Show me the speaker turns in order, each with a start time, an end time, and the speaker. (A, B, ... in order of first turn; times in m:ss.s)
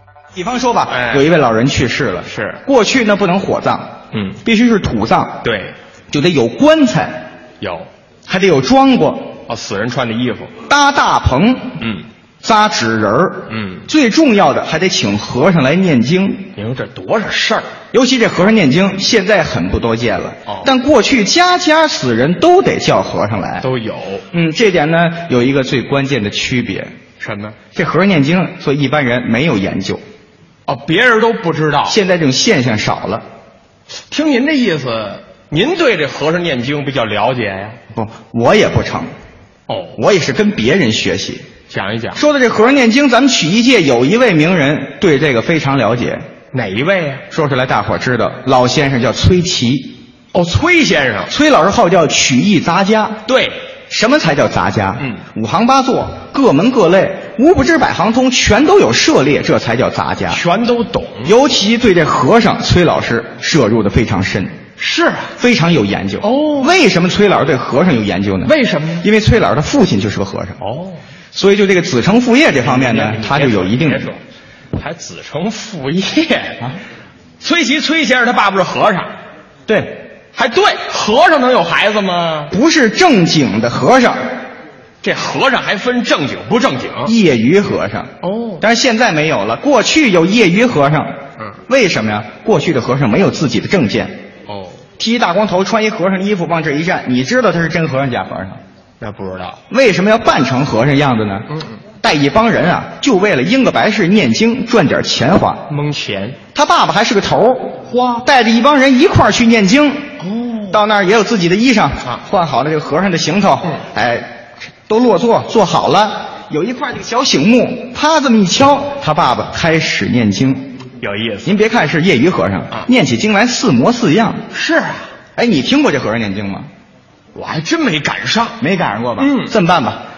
0:00.3-0:05.4 A
0:00.9-0:01.3 B
0:02.3-0:02.6 B
0:04.1-0:04.4 B
0:05.4-0:05.7 B
0:06.1-0:07.2 A
0:07.6-0:07.9 B
0:08.3-0:09.4 A
0:09.5-0:10.5 B
0:10.7-0:11.7 A
0:11.8-0:12.1 B
0:12.4-0:16.5 A
0:13.5-0:13.9 B
0:16.6-0:17.7 B
0:17.9-0:23.7 A
0:23.6-0:24.2 B
0:24.3-0:26.9 A
0:27.2-0:27.6 B
0:27.7-0:30.0 A
0:30.7-0:32.0 B
0:31.9-0:33.3 A
0:34.1-0:37.8 B
0:37.9-0:39.1 A
0:39.7-0:40.0 B
0:40.0-0:41.4 A
0:41.7-0:42.2 B
0:42.2-0:46.2 A
0:46.5-0:47.2 B
0:47.3-0:50.0 A
0:50.3-0:51.3 B
0:51.3-0:53.2 A
0:53.3-0:53.6 B
0:53.9-1:00.4 A
1:00.3-1:01.3 B
1:01.2-1:04.6 A
1:04.8-1:05.3 B
1:05.4-1:10.6 A
1:06.2-1:06.8 B
1:08.4-1:09.1 B
1:10.6-1:11.0 B
1:11.3-1:14.1 A
1:12.6-1:14.2 B
1:14.7-1:16.6 B
1:17.4-1:19.1 B
1:19.7-1:20.0 A
1:20.3-1:22.5 B
1:22.5-1:24.2 A
1:25.0-1:27.1 B
1:27.1-1:31.1 A
1:28.2-1:28.6 B
1:31.7-1:34.2 A
1:34.5-1:34.8 B
1:35.0-1:38.6 A
1:39.0-1:39.6 B
1:39.7-1:41.5 A
1:42.0-1:45.7 A
1:45.7-1:46.4 B
1:46.5-1:50.1 A
1:47.9-1:48.2 B
1:50.2-1:50.8 B
1:50.7-1:54.3 A
1:54.9-2:00.8 A
2:01.0-2:01.6 B
2:01.4-2:04.4 A
2:04.5-2:05.1 B
2:05.4-2:06.7 A
2:07.4-2:08.6 B
2:08.6-2:10.0 A
2:09.2-2:09.5 B